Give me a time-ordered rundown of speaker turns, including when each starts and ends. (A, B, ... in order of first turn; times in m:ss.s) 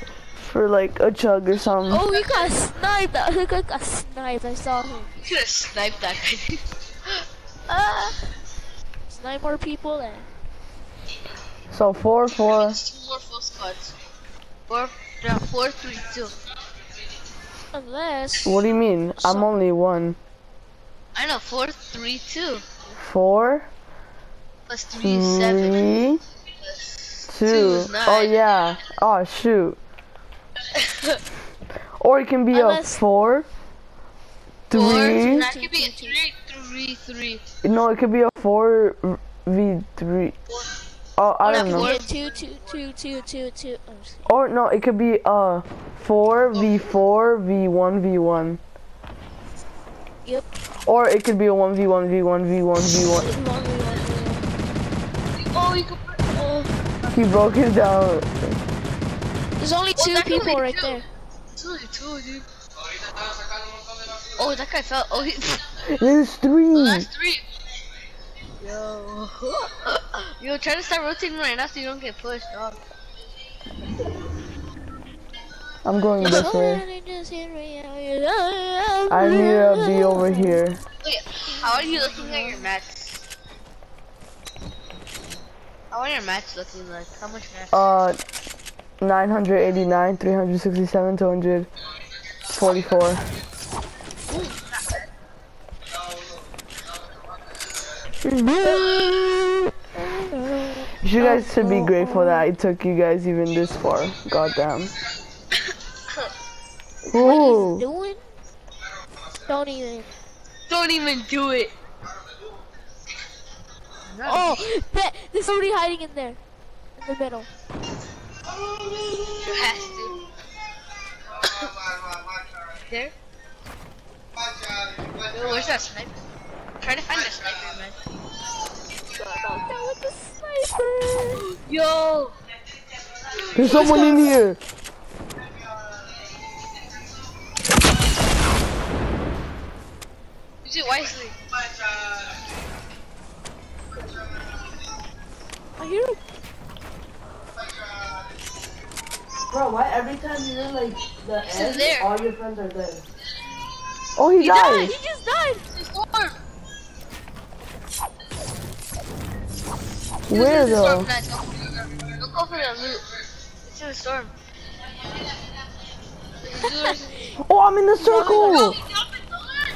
0:00.4-0:02.0 A
0:01.9-0:05.3 B
0:02.1-0:02.5 C
0:05.2-0:06.6 C
0:07.7-0:08.2 B
0:09.1-0:10.3 B
0:11.7-0:12.8 A
0:12.5-0:14.0 C
0:14.7-0:16.3 C
0:17.7-0:18.5 B
0:18.4-0:20.2 A
0:19.2-0:19.5 B
0:21.2-0:22.6 C
0:23.0-0:23.7 A
0:24.7-0:25.9 C
0:25.0-0:26.2 A
0:26.6-0:28.4 C
0:27.3-0:29.8 A
0:30.7-0:31.2 C
0:32.0-0:33.5 A
0:32.5-0:33.0 B
0:34.7-0:35.5 A
0:34.7-0:37.4 C
0:34.7-0:36.2 B
0:37.6-0:40.4 A
0:41.2-0:41.9 A
0:41.4-0:44.2 B
0:41.5-0:42.7 C
0:44.3-0:48.6 A
0:50.8-0:53.3 A
0:53.1-0:54.4 B
0:55.4-0:56.4 C
0:56.4-0:56.7 B
0:57.1-0:58.6 A
0:59.6-1:01.0 B
1:00.0-1:01.0 C
1:01.6-1:02.5 C
1:04.4-1:05.7 C
1:05.8-1:07.1 A
1:06.7-1:07.4 C
1:08.6-1:12.8 C
1:15.8-1:16.8 A
1:16.2-1:20.6 B
1:19.1-1:20.8 A
1:21.0-1:23.2 C
1:21.4-1:22.6 B
1:25.9-1:27.8 C
1:27.7-1:28.2 A
1:29.0-1:31.7 A
1:32.5-1:33.2 A
1:38.2-1:39.7 C
1:39.9-1:42.5 B
1:41.0-1:44.9 A
1:47.1-1:47.8 A
1:47.1-1:48.3 B
1:49.4-1:50.1 B
1:50.7-1:51.7 C
1:54.1-1:54.5 C
1:54.2-1:56.4 B
1:57.0-1:57.5 B
1:59.2-2:00.2 C
2:01.4-2:01.7 C
2:02.9-2:03.1 C
2:05.3-2:06.2 C
2:06.8-2:08.0 C
2:09.1-2:11.5 B
2:11.6-2:12.4 C
2:13.5-2:14.6 A
2:13.6-2:14.2 B
2:20.6-2:21.4 C
2:25.8-2:26.2 B
2:29.5-2:33.0 D
2:31.5-2:32.1 C
2:34.2-2:34.9 A
2:34.4-2:35.7 B
2:35.7-2:36.4 C
2:40.3-2:41.1 A
2:40.3-2:43.1 C
2:43.6-2:44.3 C
2:46.4-2:47.1 C
2:46.5-2:47.4 B
2:47.4-2:48.8 A
2:48.0-2:48.8 B